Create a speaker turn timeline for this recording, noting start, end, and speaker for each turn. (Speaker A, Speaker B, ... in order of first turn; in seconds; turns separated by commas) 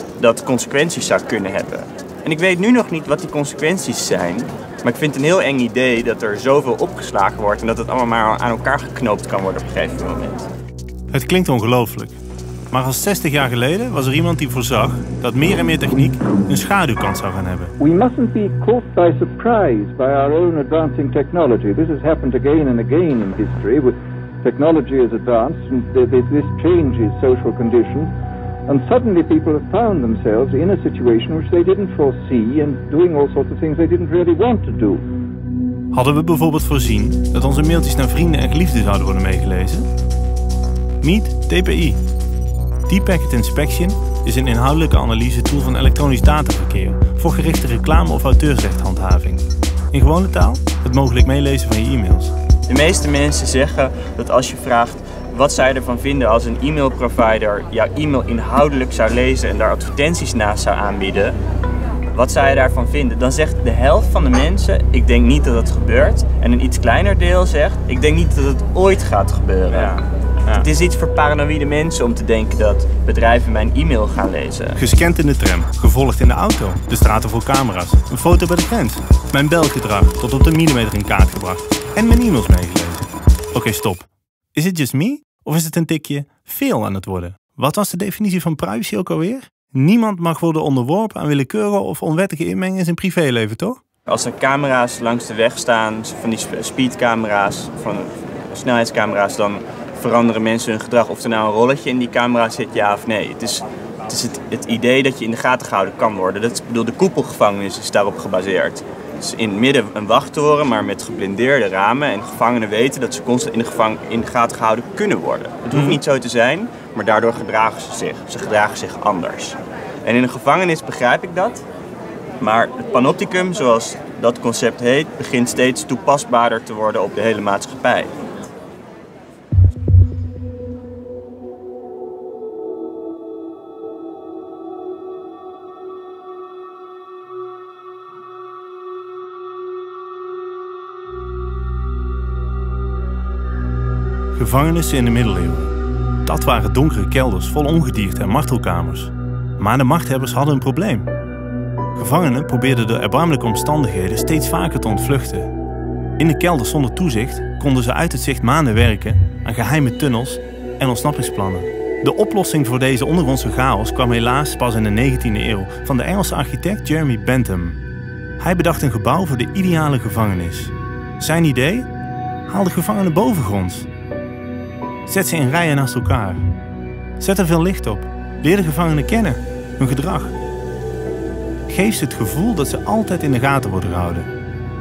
Speaker A: 0.2-10.5, Speaker B: 11.1-12.2, Speaker B: 12.7-17.7, Speaker C: 17.8-28.1, Speaker C: 28.7-35.0, Speaker B: 35.9-39.9, Speaker B: 41.0-42.0, Speaker B: 42.9-52.3, Speaker A: 52.7-61.4, Speaker A: 62.1-70.0, Speaker A: 70.5-74.8, Speaker B: 74.8-93.8, Speaker A: 94.1-121.6, Speaker A: 122.4-128.1, Speaker B: 144.3-145.7, Speaker B: 146.2-151.1, Speaker B: 151.9-155.5, Speaker B: 156.2-167.8, Speaker B: 168.4-171.9, Speaker B: 172.5-173.9, Speaker B: 175.1-176.4, Speaker B: 177.2-180.3, Speaker B: 181.7-184.3